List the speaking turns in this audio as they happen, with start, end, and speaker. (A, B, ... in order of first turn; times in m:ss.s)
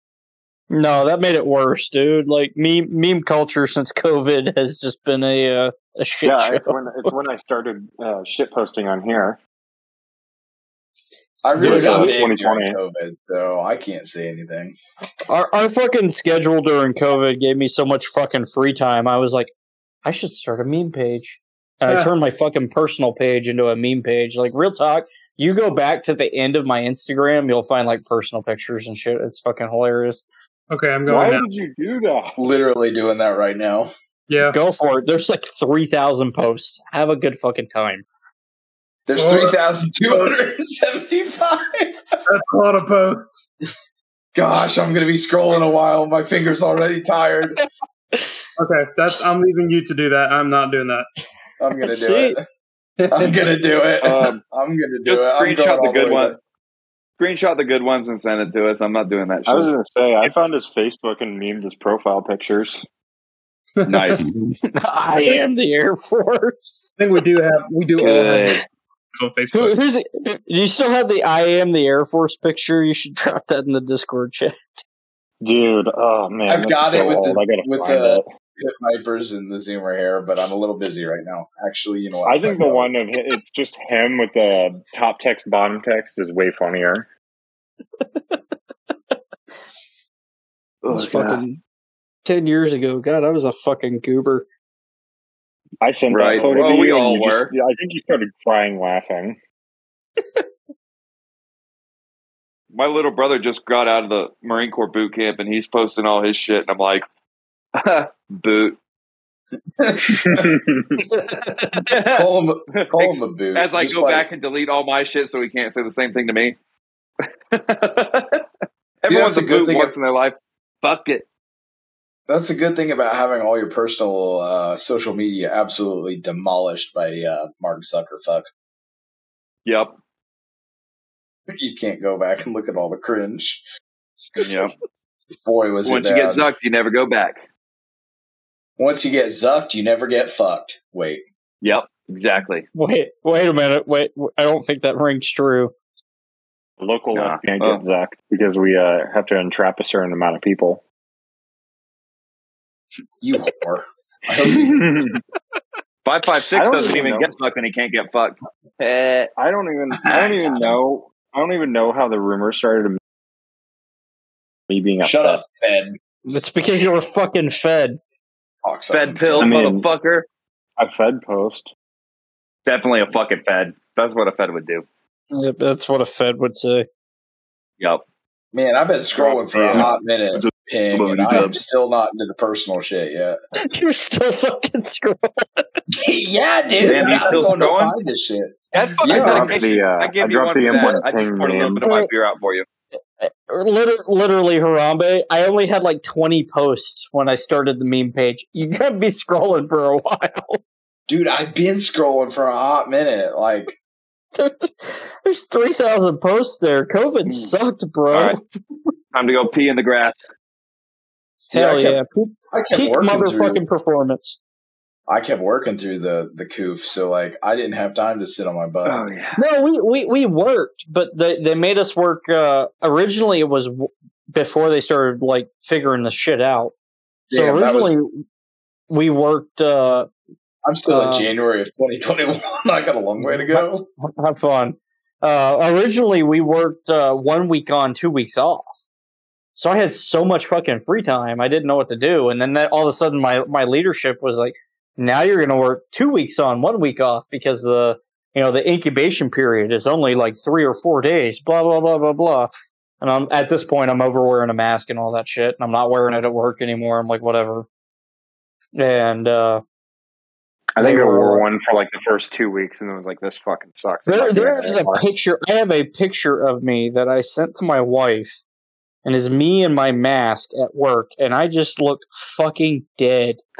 0:00.7-0:07.1 A
0:06.2-0:09.4 B
0:11.4-0:14.8 C
0:11.6-0:12.8 B
0:11.6-0:12.1 A
0:15.3-0:19.5 A
0:20.0-0:30.2 A
0:21.9-0:22.1 D
0:30.7-0:31.5 D
0:31.1-0:32.4 B
0:32.4-0:33.9 C
0:34.3-0:34.6 D
0:34.4-0:38.0 A
0:39.1-0:42.0 C
0:39.2-0:39.6 D
0:42.3-0:43.4 D
0:44.3-0:47.6 C
0:48.1-0:48.4 A
0:48.6-0:51.1 D
0:51.6-0:52.4 C
0:51.8-0:52.4 A
0:53.0-0:53.5 D
0:53.1-0:56.4 C
0:54.0-0:54.4 E
0:55.0-0:56.4 E
0:57.2-0:59.7 E
0:59.4-1:02.8 B
1:03.8-1:04.3 D
1:03.8-1:04.3 E
1:04.7-1:06.9 A
1:07.0-1:08.6 D
1:08.0-1:08.5 E
1:09.2-1:09.8 D
1:09.5-1:14.8 A
1:15.4-1:18.2 B
1:16.5-1:23.0 C
1:22.2-1:27.1 B
1:28.0-1:28.4 A
1:30.8-1:31.4 E
1:30.9-1:31.6 A
1:32.2-1:34.4 A
1:35.8-1:39.4 B
1:36.1-1:37.5 E
1:42.7-1:47.0 E
1:47.8-1:48.8 E
1:49.8-1:50.5 C
1:50.1-1:51.0 B
1:51.0-1:51.8 A
1:51.8-1:56.6 E
1:52.1-1:54.3 C
1:57.5-1:58.4 E
1:59.0-2:01.3 E
1:59.1-1:59.9 C
2:02.3-2:08.5 C
2:09.6-2:09.9 E
2:11.6-2:13.6 C
2:14.4-2:14.7 E
2:15.4-2:16.5 C
2:15.8-2:17.4 E
2:18.8-2:21.2 C
2:21.6-2:22.6 E
2:22.7-2:25.7 A
2:26.8-2:30.8 B
2:27.1-2:27.8 E
2:33.2-2:34.9 C
2:34.5-2:35.2 B
2:36.0-2:39.3 E
2:36.5-2:37.3 B
2:39.4-2:43.0 B
2:40.0-2:40.8 C
2:44.7-2:45.4 B
2:45.0-2:46.0 C
2:46.3-2:48.0 A
2:48.6-2:49.6 C
2:48.9-2:50.3 E
2:49.4-2:49.9 B
2:50.8-2:51.7 B
2:52.6-2:54.8 E
2:55.3-2:56.9 A
2:58.5-3:03.4 C
2:59.2-3:01.6 E
3:03.6-3:05.6 A
3:06.0-3:09.6 C
3:06.8-3:07.9 E
3:08.7-3:12.6 E
3:09.0-3:11.8 B
3:10.7-3:11.0 A
3:11.8-3:12.1 A
3:13.2-3:20.6 A
3:21.1-3:23.8 C
3:24.4-3:28.4 A
3:27.3-3:27.5 E
3:28.1-3:28.4 E
3:29.1-3:30.3 E
3:31.5-3:32.0 C
3:31.5-3:34.4 A
3:32.5-3:33.6 C
3:35.1-3:39.0 C
3:38.9-3:39.4 E
3:39.4-3:46.7 A
3:47.3-3:48.0 C
3:47.3-3:48.1 A
3:48.9-3:50.1 A
3:50.6-3:53.9 C
3:50.9-3:51.3 A
3:53.2-3:58.8 A
3:59.6-4:17.7 A
4:18.8-4:19.6 A
4:20.7-4:25.0 B
4:20.8-4:21.4 A
4:24.0-4:28.4 A
4:29.0-4:33.4 A